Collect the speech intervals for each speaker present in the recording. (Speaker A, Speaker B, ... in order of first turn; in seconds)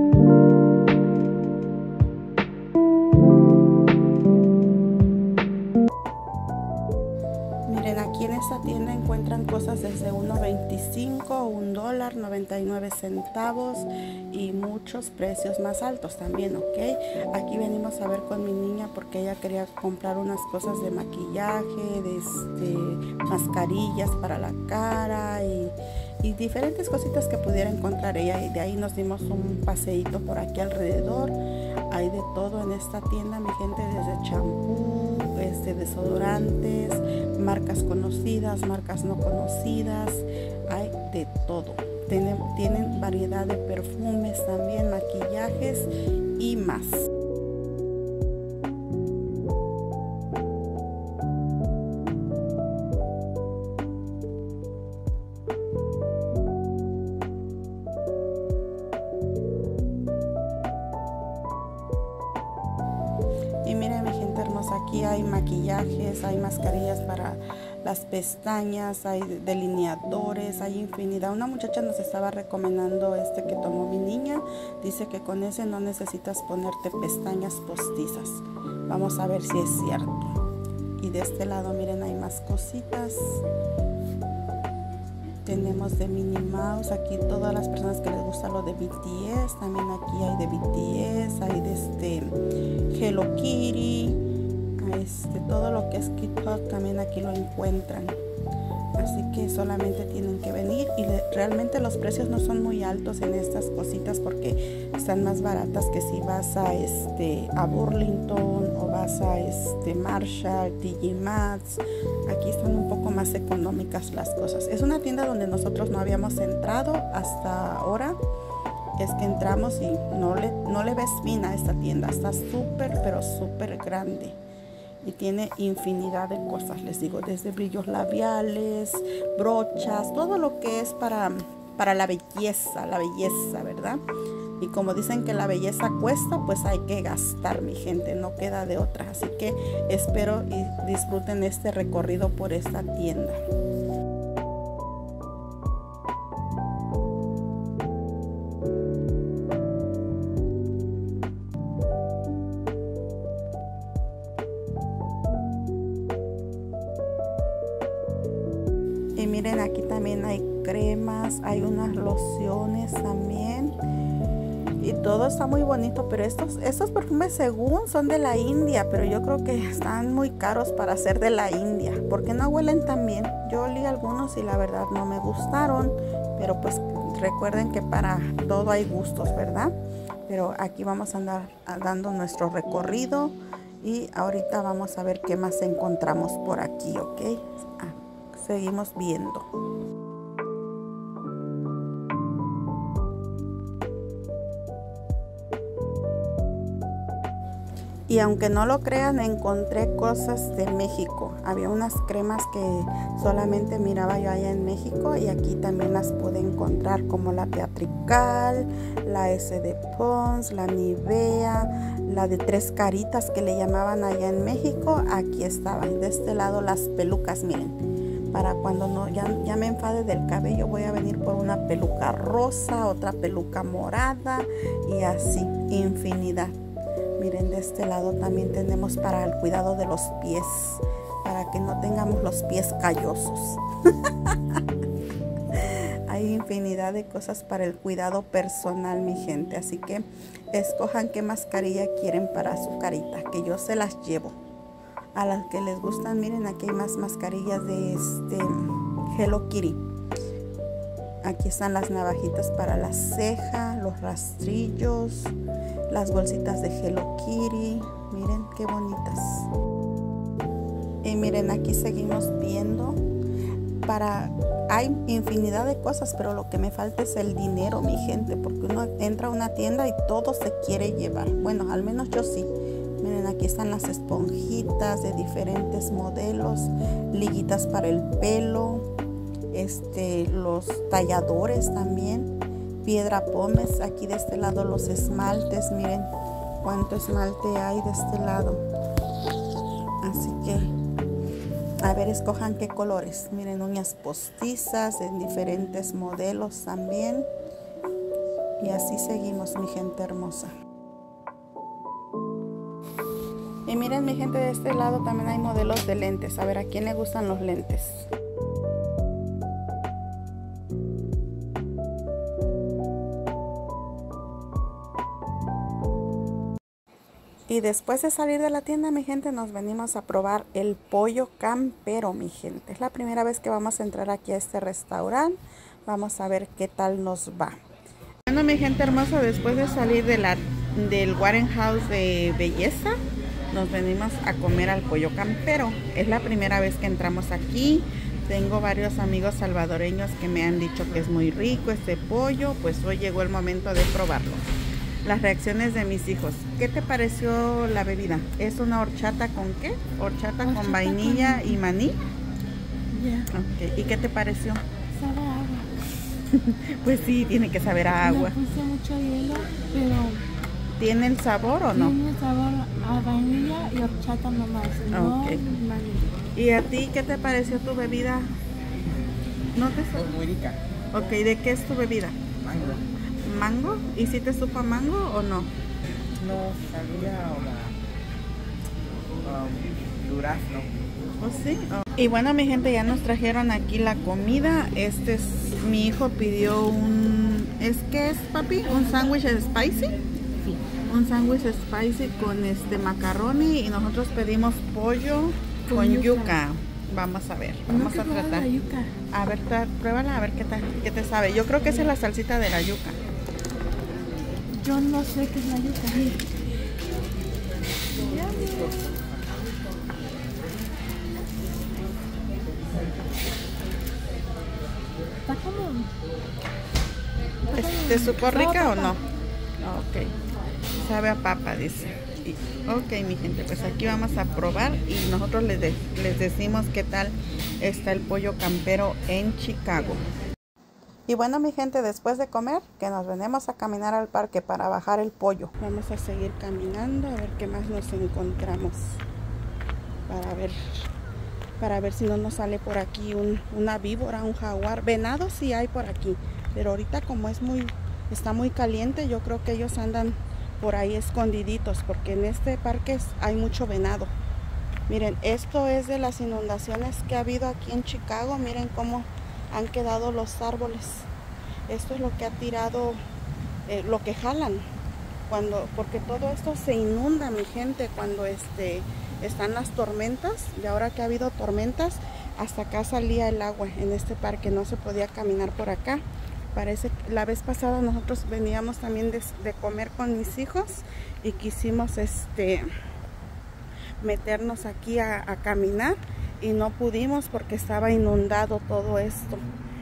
Speaker A: 7.7-31.4, 31.9-47.1, 63.6-80.4, 81.0-83.4, 85.5-94.2, 94.8-98.2, 99.0-118.2, 119.0-124.4, 125.0-134.0, 134.6-143.4, 159.2-163.8, 164.8-179.7, 180.3-189.5, 198.1-217.8, 218.3-226.6, 227.2-234.6, 235.5-244.4, 245.2-249.8, 251.2-255.3, 255.9-259.5, 261.0-263.0, 263.8-278.9, 279.5-282.3, 282.8-286.1, 286.6-288.6, 290.0-290.7, 291.8-297.3, 298.6-300.5, 303.7-308.0, 317.5-327.6, 328.3-333.0, 333.5-344.5, 345.0-352.0, 353.3-354.6, 356.2-358.4, 360.8-362.0, 364.9-365.5, 366.3-368.3, 369.5-370.1, 370.9-372.2, 373.2-375.5, 381.2-398.5, 399.1-403.0, 417.5-419.0, 419.6-420.1, 420.8-430.0, 431.1-439.0, 440.1-440.6, 441.6-454.1, 454.9-461.1, 461.7-463.0, 463.7-464.6, 465.3-476.0, 476.5-482.7, 484.0-489.5
Speaker B: 350.4-351.6, 352.9-353.3, 354.9-355.7, 358.0-360.2, 361.7-366.1, 395.7-396.4, 397.7-398.9, 404.6-406.2, 408.0-408.8, 415.2-415.9, 417.5-419.0
Speaker C: 370.0-370.6, 372.4-372.8, 376.2-377.8, 379.2-380.8, 408.7-409.0